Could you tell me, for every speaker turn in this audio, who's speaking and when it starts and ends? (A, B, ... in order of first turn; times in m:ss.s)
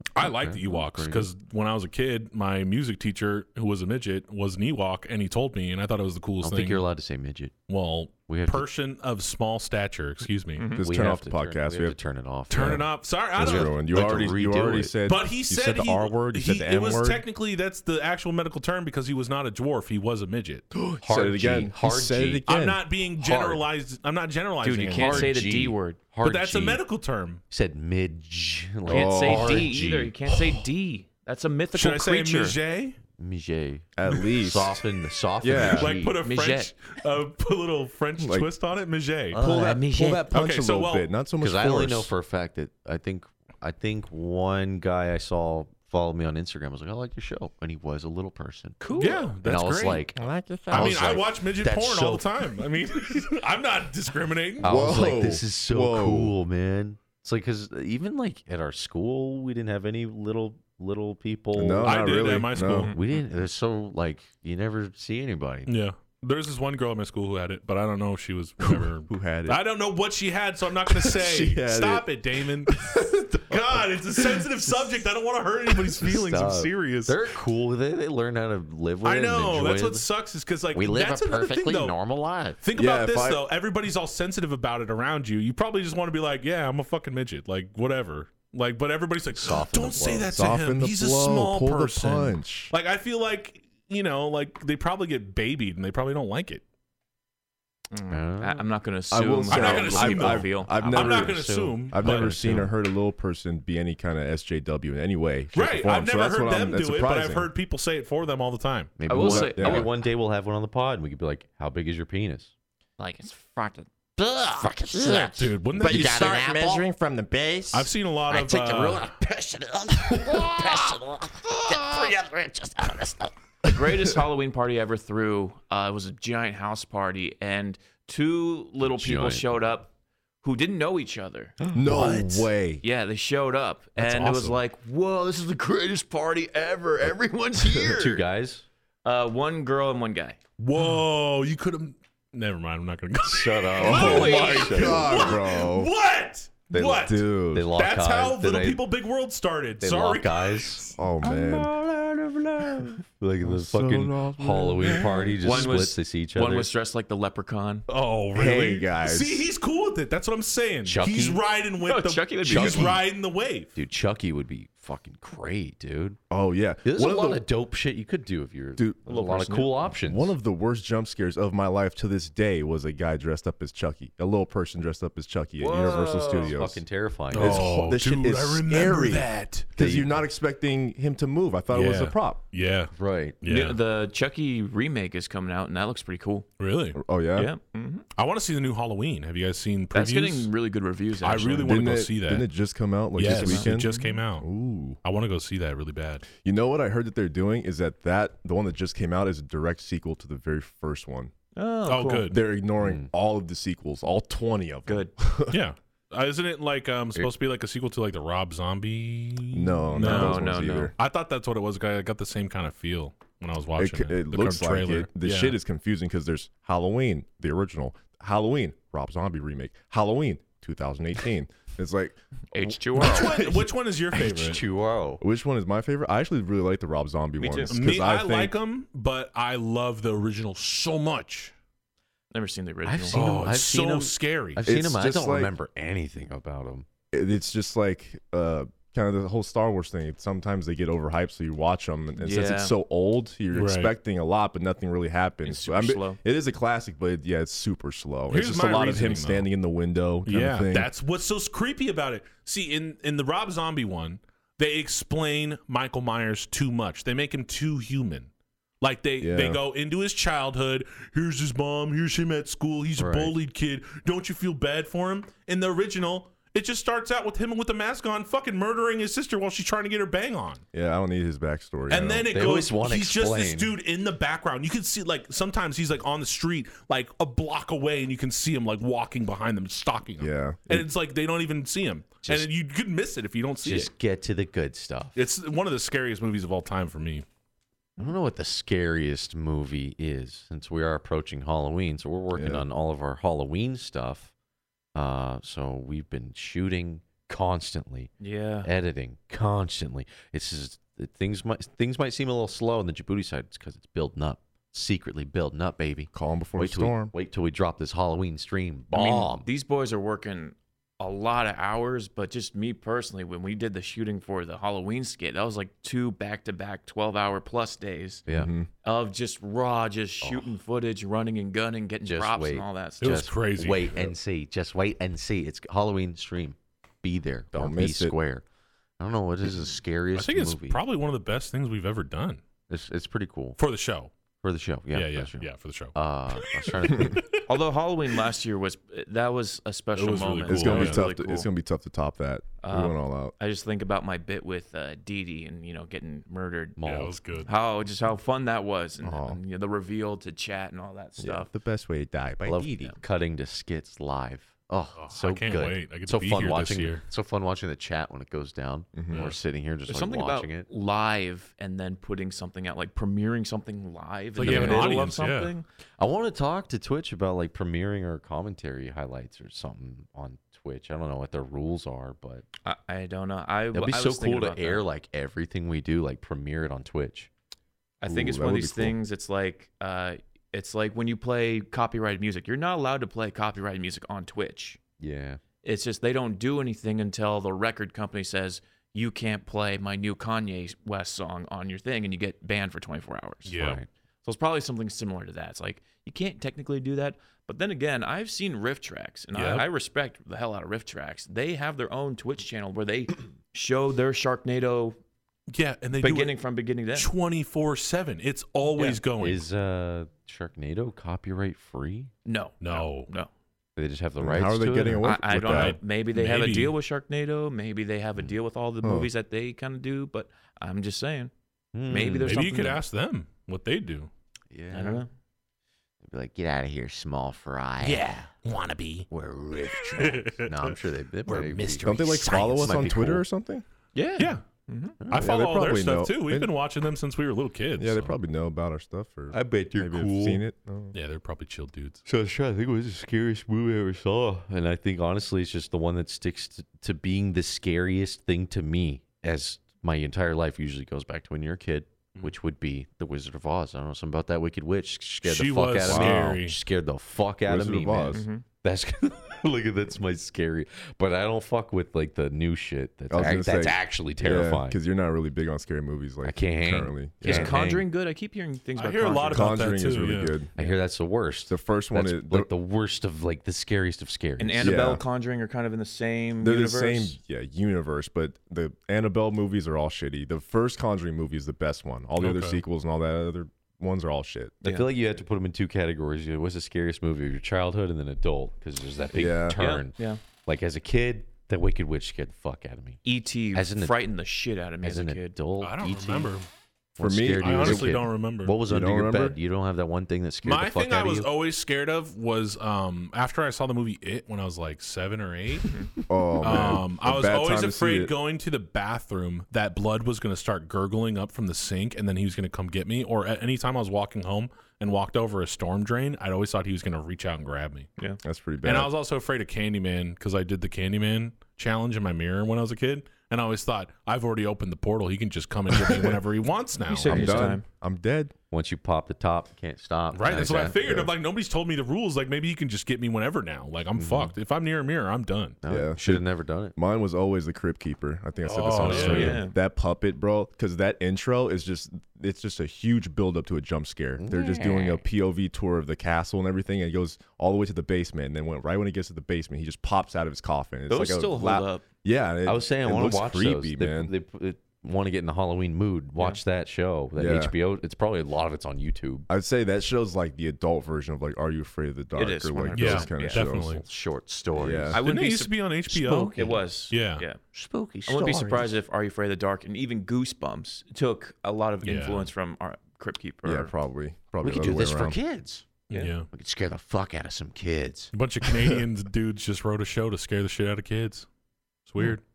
0:00.2-0:06.8 A
0:00.2-0:01.3 B
0:06.4-0:07.5 B
0:07.7-0:10.7 A
0:08.3-0:08.7 B
0:10.6-0:10.8 C
0:10.8-0:12.0 D
0:10.8-0:15.0 B
0:12.5-0:14.3 A
0:12.6-0:17.2 D
0:15.1-0:20.6 A
0:20.7-0:22.9 D
0:21.0-0:22.4 B
0:22.5-0:25.4 A
0:23.2-0:23.6 B
0:24.6-0:26.0 C
0:24.9-0:26.8 B
0:26.2-0:27.4 A
0:27.5-0:30.1 B
0:28.9-0:29.7 D
0:28.9-0:32.6 C
0:31.7-0:33.0 A
0:33.2-0:36.2 B
0:34.0-0:34.8 D
0:35.4-0:35.9 D
0:35.6-0:39.4 A
0:36.2-0:36.7 C
0:38.2-0:38.5 D
0:39.3-0:39.8 B
0:39.4-0:42.1 D
0:39.4-0:40.3 C
0:40.3-0:41.1 A
0:41.4-0:48.8 B
0:48.8-0:49.3 C
0:49.0-0:50.0 A
0:49.4-0:52.3 B
0:50.2-0:51.2 D
0:50.7-0:54.7 A
0:54.6-0:56.4 D
0:54.6-1:02.2 B
1:01.5-1:02.9 D
1:01.8-1:03.0 A
1:02.9-1:05.7 B
1:05.7-1:17.2 A
1:08.6-1:09.6 D
1:10.9-1:13.6 D
1:14.1-1:14.6 D
1:16.0-1:20.1 B
1:19.0-1:22.0 A
1:20.7-1:22.6 B
1:22.6-1:36.6 A
1:22.8-1:23.4 D
1:29.3-1:30.3 B
1:30.3-1:32.7 D
1:37.9-1:40.8 C
1:38.1-1:38.7 B
1:39.1-1:47.5 D
1:39.5-1:42.7 A
1:40.7-1:42.6 B
1:45.5-1:49.0 A
1:49.0-1:52.5 B
1:49.1-1:49.9 C
1:49.1-1:49.9 D
1:53.0-2:03.3 E
1:55.0-1:56.4 A
1:57.7-1:59.2 A
2:03.7-2:09.9 C
2:08.8-2:09.7 B
2:10.4-2:18.2 C
2:11.7-2:12.8 D
2:14.0-2:14.6 A
2:17.7-2:18.7 B
2:19.0-2:20.4 C
2:20.6-2:30.9 A
2:23.2-2:25.3 B
2:23.8-2:25.9 D
2:23.8-2:25.0 C
2:26.7-2:27.7 D
2:26.7-2:28.8 B
2:29.8-2:36.7 B
2:31.0-2:31.7 D
2:33.4-2:35.7 D
2:34.9-2:37.9 C
2:37.9-2:43.7 A
2:38.3-2:39.4 D
2:40.8-2:41.4 B
2:41.8-2:43.0 C
2:42.5-2:43.0 B
2:43.8-2:46.2 B
2:46.3-2:47.4 D
2:46.8-2:50.3 B
2:48.8-2:49.4 D
2:49.1-2:49.8 C
2:50.0-3:02.4 D
2:55.6-2:56.5 C
2:56.4-2:57.7 B
2:57.3-2:59.7 A
2:59.8-3:00.1 B
3:01.7-3:03.8 A
3:02.9-3:03.4 B
3:03.5-3:06.5 C
3:06.6-3:07.0 A
3:07.0-3:07.5 D
3:07.4-3:08.0 C
3:08.2-3:10.5 A
3:09.9-3:11.7 C
3:11.2-3:12.5 A
3:11.6-3:15.0 D
3:13.2-3:14.5 A
3:13.2-3:14.2 C
3:15.0-3:16.3 A
3:16.4-3:21.3 D
3:21.6-3:22.3 C
3:21.8-3:22.4 A
3:22.3-3:25.6 D
3:22.8-3:23.1 B
3:25.5-3:35.6 A
3:29.5-3:31.0 D
3:30.0-3:31.0 C
3:33.8-3:43.6 D
3:42.5-3:43.5 C
3:42.9-3:44.6 A
3:44.2-3:45.2 B
3:45.2-3:48.6 D
3:47.4-3:47.8 C
3:47.7-3:51.5 A
3:52.3-3:53.3 C
3:52.8-3:56.9 B
3:53.1-3:54.6 A
3:54.6-3:55.5 D
3:57.1-4:10.9 D
4:02.2-4:02.8 C
4:03.5-4:03.9 A
4:05.4-4:06.2 C
4:08.3-4:09.5 A
4:10.2-4:18.3 A
4:18.8-4:30.6 A
4:19.2-4:19.6 D
4:23.0-4:23.4 B
4:30.7-4:32.3 D
4:31.9-4:43.9 A
4:32.3-4:33.7 B
4:40.2-4:40.9 D
4:43.6-4:45.2 B
4:45.2-4:47.2 A
4:48.0-4:54.3 B
4:52.3-4:52.6 D
4:55.0-4:58.1 B
4:58.2-4:58.7 C
4:58.6-5:09.5 B
5:06.1-5:07.1 D
5:08.9-5:18.2 C
5:18.3-5:18.5 B
5:18.3-5:18.7 D
5:18.8-5:23.2 C
5:20.2-5:20.5 B
5:22.0-5:28.4 B
5:23.0-5:24.1 A
5:27.5-5:28.2 D
5:29.0-5:30.8 B
5:30.2-5:32.4 A
5:32.7-5:33.6 B
5:33.6-5:34.1 A
5:34.4-5:37.2 B
5:34.9-5:37.4 A
5:37.5-5:41.5 C
5:40.0-5:41.0 A
5:40.5-5:43.3 D
5:42.6-5:46.8 C
5:46.8-5:47.2 B
5:46.8-5:47.5 A
5:47.4-5:51.5 C
5:49.0-5:49.4 D
5:51.2-5:52.7 D
5:52.4-6:00.7 B
5:55.0-5:57.0 A
5:58.9-5:59.3 D
5:59.1-5:59.4 A
5:59.9-6:05.7 C
6:04.4-6:05.5 A
6:04.4-6:05.0 B
6:06.0-6:12.4 B
6:12.6-6:14.8 C
6:13.7-6:17.3 B
6:18.0-6:24.8 C
6:18.1-6:19.0 D
6:25.0-6:25.4 B
6:25.6-6:33.6 C
6:33.4-6:33.8 A
6:33.5-6:33.9 B
6:34.2-6:45.0 C
6:39.3-6:39.7 A
6:45.5-6:46.4 A
6:46.0-6:47.1 C
6:46.9-6:49.4 A
6:48.7-6:49.0 C
6:49.2-6:52.1 B
6:52.3-6:53.3 C
6:52.6-6:53.1 A
6:53.8-6:55.1 B
6:54.2-6:55.8 D
6:55.0-7:01.3 C
6:55.3-6:56.8 A
6:58.8-6:59.1 D
7:01.7-7:02.4 B
7:01.9-7:02.8 C
7:02.2-7:04.1 A
7:04.5-7:05.0 B
7:04.7-7:05.1 C
7:06.0-7:08.0 B
7:07.8-7:09.1 A
7:09.1-7:10.3 E
7:09.2-7:13.2 B
7:09.7-7:10.8 A
7:11.3-7:12.8 E
7:11.8-7:13.6 D
7:14.0-7:15.0 C
7:14.2-7:14.4 A
7:15.0-7:15.3 B
7:15.1-7:18.2 A
7:15.1-7:16.5 D
7:17.8-7:21.0 D
7:19.3-7:20.4 B
7:20.9-7:22.0 A
7:22.0-7:44.8 B
7:35.2-7:36.6 A
7:35.9-7:36.4 D
7:37.5-7:38.3 D
7:38.1-7:38.4 C
7:43.1-7:47.6 D
7:46.2-7:47.9 B
7:47.2-7:49.6 C
7:48.8-7:50.4 A
7:49.3-7:50.5 D
7:50.6-7:54.8 B
7:51.5-7:52.5 D
7:54.4-7:57.2 C
7:54.6-7:55.0 D
7:56.4-8:04.6 D
8:02.2-8:02.6 A
8:04.6-8:13.0 B
8:09.1-8:09.6 D
8:09.6-8:10.2 C
8:13.0-8:15.4 C
8:13.5-8:14.0 B
8:14.8-8:16.3 B
8:15.6-8:16.5 A
8:17.0-8:21.3 B
8:17.0-8:18.0 D
8:17.4-8:18.6 A
8:18.7-8:19.4 D
8:20.4-8:25.8 A
8:26.1-8:28.1 D
8:26.4-8:37.9 A
8:38.2-8:38.9 D
8:38.6-8:47.4 A
8:45.7-8:46.2 D
8:46.9-8:47.6 C
8:47.1-8:48.3 D
8:47.1-8:47.6 B
8:48.5-8:50.8 B
8:50.1-8:55.6 A
8:50.8-8:51.1 D
8:54.0-8:54.3 B
8:55.6-8:56.8 B
8:55.7-8:56.2 D
8:56.8-9:14.1 D
8:58.4-8:59.4 A
8:58.8-8:59.6 C
8:58.9-8:59.4 B
9:04.2-9:05.0 B
9:10.9-9:11.8 C
9:12.4-9:19.3 B
9:17.2-9:17.5 D
9:19.3-9:23.8 D
9:22.2-9:23.5 C
9:22.8-9:23.8 A
9:23.6-9:25.0 B
9:24.6-9:25.0 D
9:24.9-9:25.5 C
9:25.0-9:27.3 A
9:26.0-9:26.6 B
9:26.3-9:27.4 C
9:27.6-9:28.6 B
9:27.7-9:28.4 E
9:28.1-9:33.7 C
9:31.8-9:32.3 A
9:33.4-9:35.2 D
9:34.4-9:35.7 B
9:35.9-9:36.3 A
9:36.3-9:38.1 B
9:38.1-9:41.3 A
9:38.5-9:38.8 D
9:41.9-9:42.2 A